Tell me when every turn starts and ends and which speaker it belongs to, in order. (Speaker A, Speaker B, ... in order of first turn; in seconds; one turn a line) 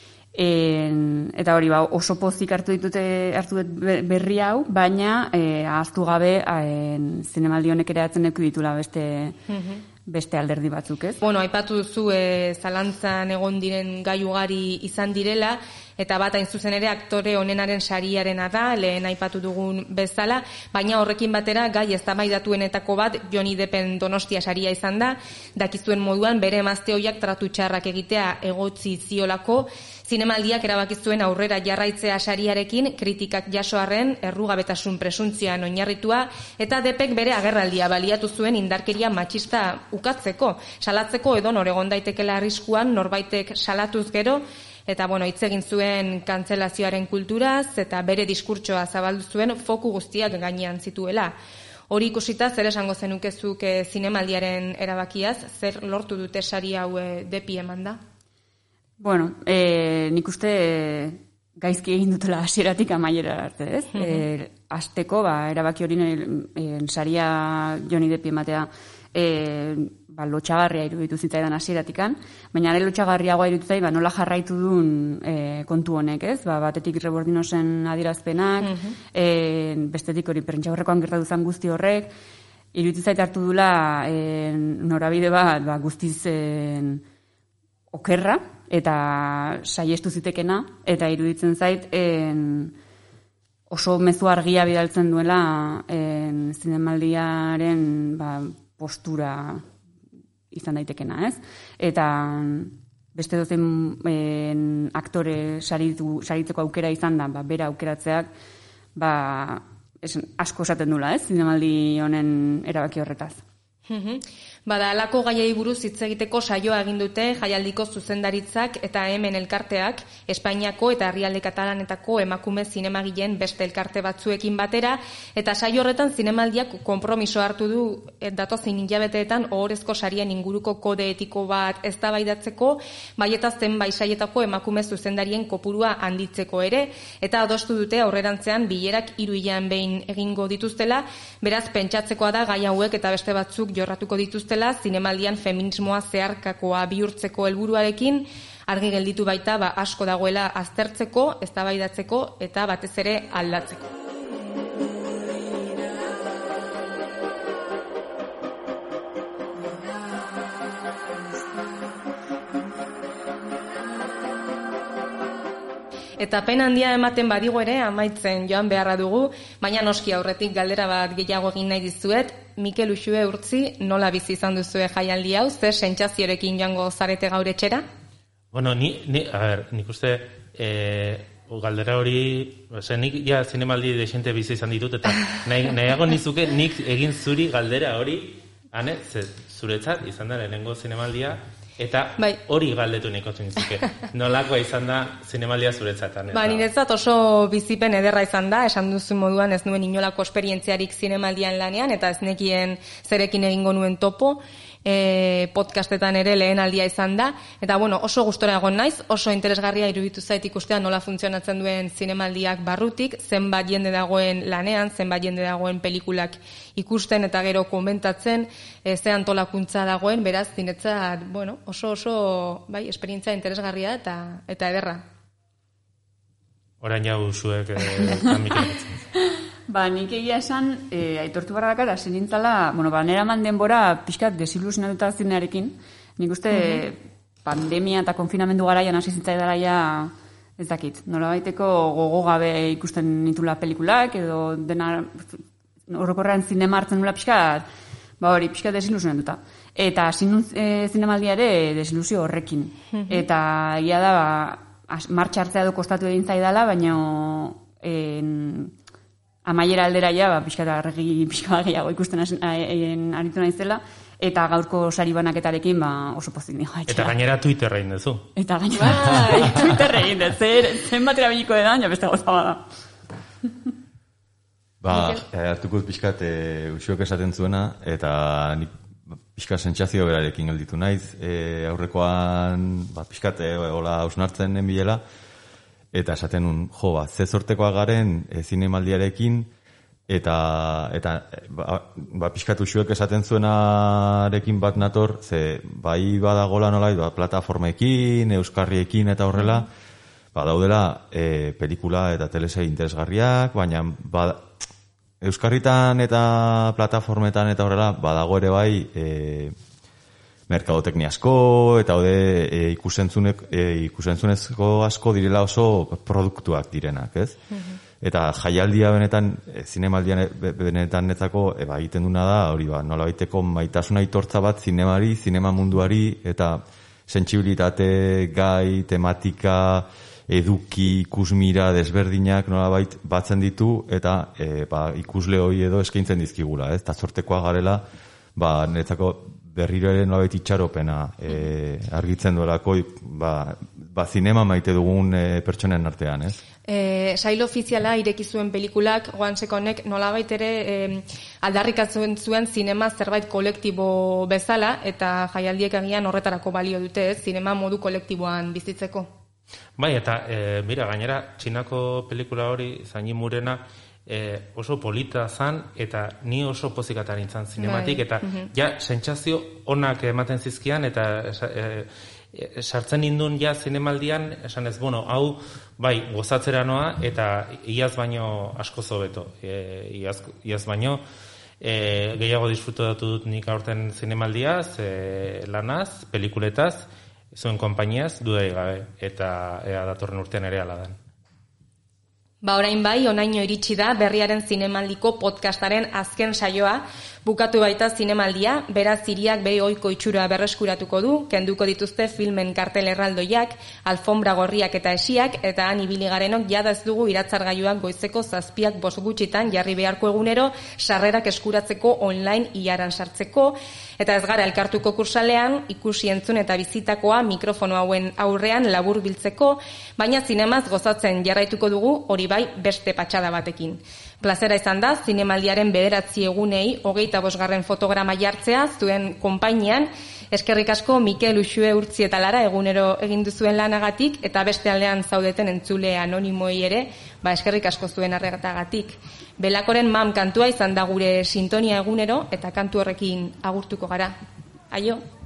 Speaker A: 0.3-9.4
Speaker B: 9.5-9.8
Speaker A: 10.1-11.2
Speaker B: 11.2-51.3
Speaker B: 51.9-58.0
Speaker A: 59.0-82.1
Speaker B: 63.9-64.2
Speaker B: 78.6-79.0
Speaker A: 82.7-87.0
Speaker A: 87.9-92.7
Speaker A: 93.7-99.6
Speaker A: 100.5-108.3
Speaker A: 109.0-113.4
Speaker B: 113.9-153.8
Speaker B: 166.2-177.8
Speaker C: 178.5-196.7
Speaker B: 196.3-225.0
Speaker C: 226.8-229.0
Speaker A: 229.7-247.7
Speaker B: 236.5-236.8
Speaker A: 248.2-258.7
Speaker B: 252.9-253.2
Speaker A: 259.4-267.1
Speaker C: 266.9-268.3
Speaker A: 268.4-272.6
Speaker D: 274.8-278.7
Speaker D: 279.3-285.0
Speaker D: 285.9-289.5
Speaker D: 290.1-299.7
Speaker D: 300.3-304.5
Speaker D: 305.2-309.5
Speaker D: 310.5-317.4
Speaker D: 318.0-337.8
Speaker D: 338.4-346.4
Speaker B: 346.7-359.1
Speaker C: 359.8-381.0
Speaker B: 367.6-368.5
Speaker C: 381.6-390.9
Speaker B: 392.4-444.1
Speaker B: 444.7-445.0